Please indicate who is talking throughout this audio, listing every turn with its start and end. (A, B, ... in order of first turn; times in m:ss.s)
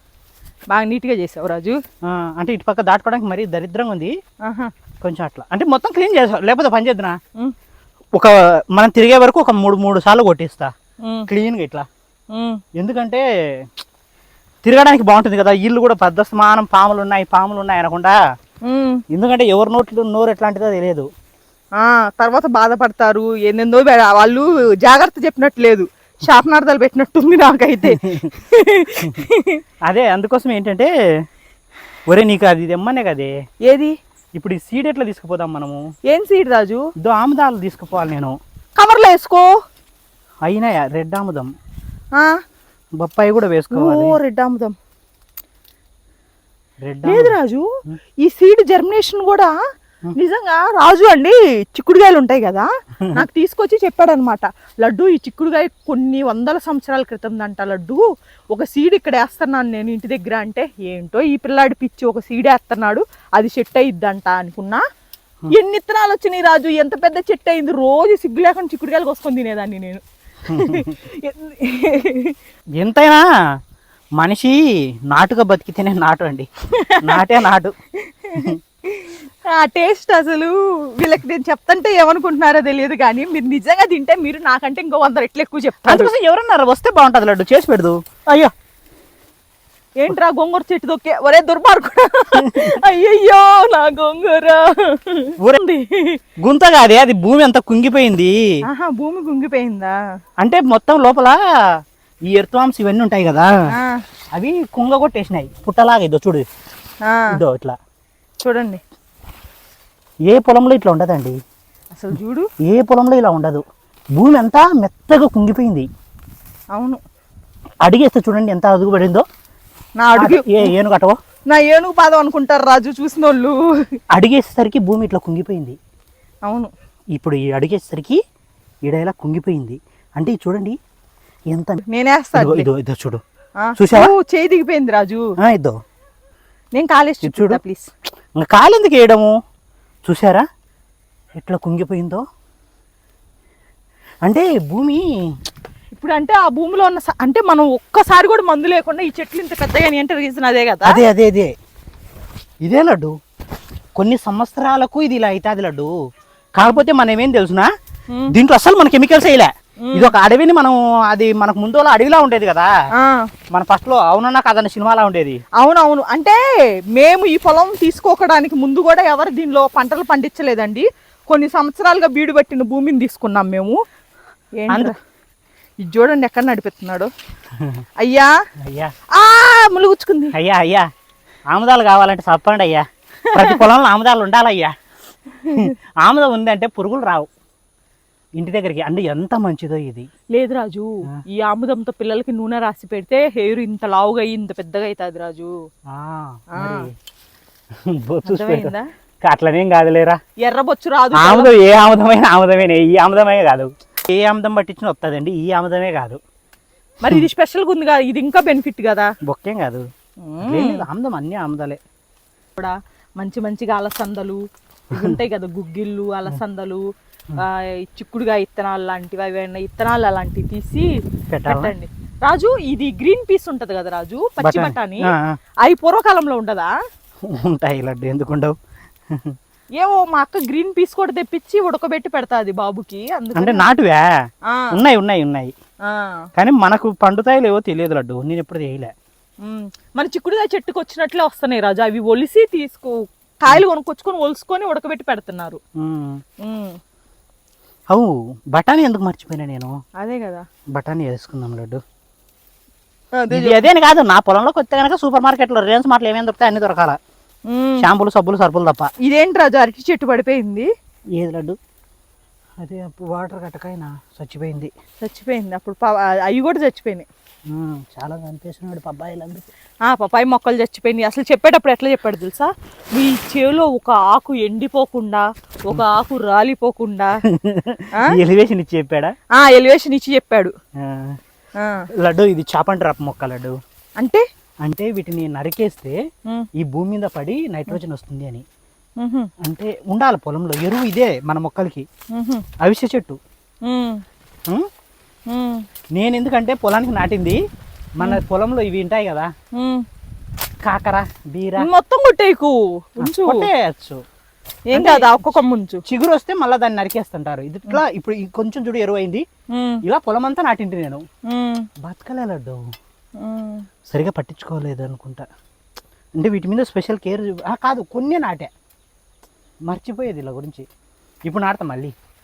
0:00.7-0:01.8 A
0:02.1-0:04.1 B
0:04.4-0:04.7 A
0:05.0-0:07.2 B
0:08.1-0:10.7 B
0:11.3-0:11.9 B
0:12.3-0:12.6 A
0:12.8-0:13.8 B
0:14.6-0:18.2 B
0:18.6-0:19.0 A
0:19.1-0:21.1 B
0:21.8-0:29.6 A
0:28.0-0:28.3 B
0:29.9-0:30.9 B
0:32.1-0:33.3 B
0:33.6-0:34.0 A
0:34.4-0:35.8 B
0:36.1-0:36.9 A
0:37.0-0:38.4 B
0:38.8-0:39.5 A
0:40.5-0:41.5 B
0:43.0-0:44.2 B
0:43.7-0:44.8 A
0:46.8-0:47.4 B
0:47.1-0:47.7 A
0:48.2-0:49.6 A
0:50.1-1:04.8 A
1:05.5-1:12.4 A
1:10.5-1:10.9 B
1:12.8-1:13.2 B
1:14.2-1:14.6 B
1:15.1-1:16.5 B
1:16.8-1:17.3 A
1:17.0-1:17.7 B
1:18.0-1:26.1 A
1:25.8-1:28.5 B
1:30.0-1:36.2 A
1:32.3-1:32.8 B
1:36.4-1:38.4 B
1:38.7-1:40.0 A
1:40.4-1:41.4 B
1:42.3-1:43.5 B
1:43.7-1:44.0 A
1:44.3-1:46.5 B
1:47.0-1:47.4 A
1:47.3-1:47.8 B
1:48.4-1:48.8 A
1:50.3-1:51.4 B
1:52.0-1:52.5 A
1:52.6-1:53.6 B
1:54.2-1:55.9 B
1:56.7-1:57.0 A
1:57.8-1:59.2 B
2:00.0-2:00.7 A
2:00.2-2:01.2 B
2:01.5-2:04.0 A
2:04.1-2:05.8 B
2:06.5-2:06.7 A
2:07.2-2:08.2 B
2:08.8-2:10.8 B
2:11.5-2:11.8 B
2:11.9-2:12.7 A
2:12.4-2:13.2 B
2:13.6-2:15.3 A
2:13.8-2:14.1 B
2:15.4-2:15.8 B
2:16.7-2:17.9 A
2:17.2-2:17.6 B
2:18.4-2:19.3 B
2:20.1-2:20.4 B
2:21.4-2:22.2 B
2:24.2-2:25.0 B
2:25.9-2:31.0 A
2:30.8-2:31.5 B
2:32.6-2:33.1 B
2:34.0-2:35.9 B
2:36.6-2:37.7 B
2:38.3-2:42.7 B
2:39.8-2:40.1 A
2:43.0-2:43.3 A
2:43.5-2:45.4 B
2:45.6-2:46.4 A
2:46.9-2:53.8 A
2:54.6-2:55.0 A
2:54.7-2:55.0 B
2:55.8-2:57.1 A
2:57.6-2:57.8 B
2:58.0-2:58.3 A
2:58.6-2:58.9 B
2:59.1-3:00.4 A
3:00.3-3:00.9 B
3:01.5-3:04.7 B
3:03.3-3:03.6 A
3:05.4-3:05.7 A
3:05.5-3:07.3 B
3:08.4-3:10.1 B
3:10.3-3:15.6 A
3:15.9-3:16.9 B
3:16.5-3:16.9 A
3:17.8-3:20.2 B
3:18.3-3:18.9 A
3:20.4-3:21.5 A
3:21.1-3:26.2 B
3:27.0-3:29.1 A
3:29.3-3:29.8 B
3:30.3-3:30.9 A
3:30.4-3:31.8 B
3:32.6-3:36.8 A
3:37.4-3:45.1 A
3:41.3-3:41.8 B
3:44.4-3:45.4 B
3:45.6-3:46.7 A
3:47.3-3:48.5 B
3:49.8-3:53.6 A
3:53.4-3:54.1 B
3:54.5-3:54.7 A
3:54.7-3:55.5 B
3:55.8-3:56.3 A
3:56.4-3:58.9 B
3:59.4-4:05.6 A
4:05.8-4:06.2 B
4:06.4-4:06.8 A
4:07.9-4:09.7 B
4:10.0-4:10.5 A
4:10.7-4:11.8 B
4:13.2-4:13.6 A
4:13.3-4:17.0 B
4:17.5-4:17.9 A
4:17.8-4:18.9 B
4:19.0-4:20.7 A
4:21.2-4:21.6 B
4:22.6-4:24.7 B
4:25.0-4:27.1 A
4:27.5-4:29.5 B
4:29.8-4:37.2 A
4:37.3-4:39.1 B
4:39.4-4:40.5 A
4:40.8-4:41.2 B
4:41.6-4:41.9 A
4:42.0-4:43.6 B
4:44.6-4:46.0 B
4:46.6-4:48.4 B
4:49.0-4:49.3 A
4:49.4-4:51.8 B
4:52.1-4:52.4 A
4:52.6-4:53.2 B
4:53.7-4:54.0 A
4:55.3-4:55.6 A
4:55.9-4:57.4 B
4:58.0-4:59.3 B
4:59.6-4:59.8 A
5:00.6-5:01.7 B
5:01.6-5:03.5 A
5:03.0-5:04.0 B
5:04.7-5:05.8 A
5:04.7-5:05.1 B
5:05.9-5:09.3 B
5:09.5-5:09.8 A
5:09.8-5:11.0 B
5:11.3-5:11.7 A
5:11.8-5:12.6 B
5:13.2-5:13.6 A
5:13.9-5:15.3 B
5:16.2-5:18.5 B
5:19.7-5:20.7 B
5:21.3-5:22.0 B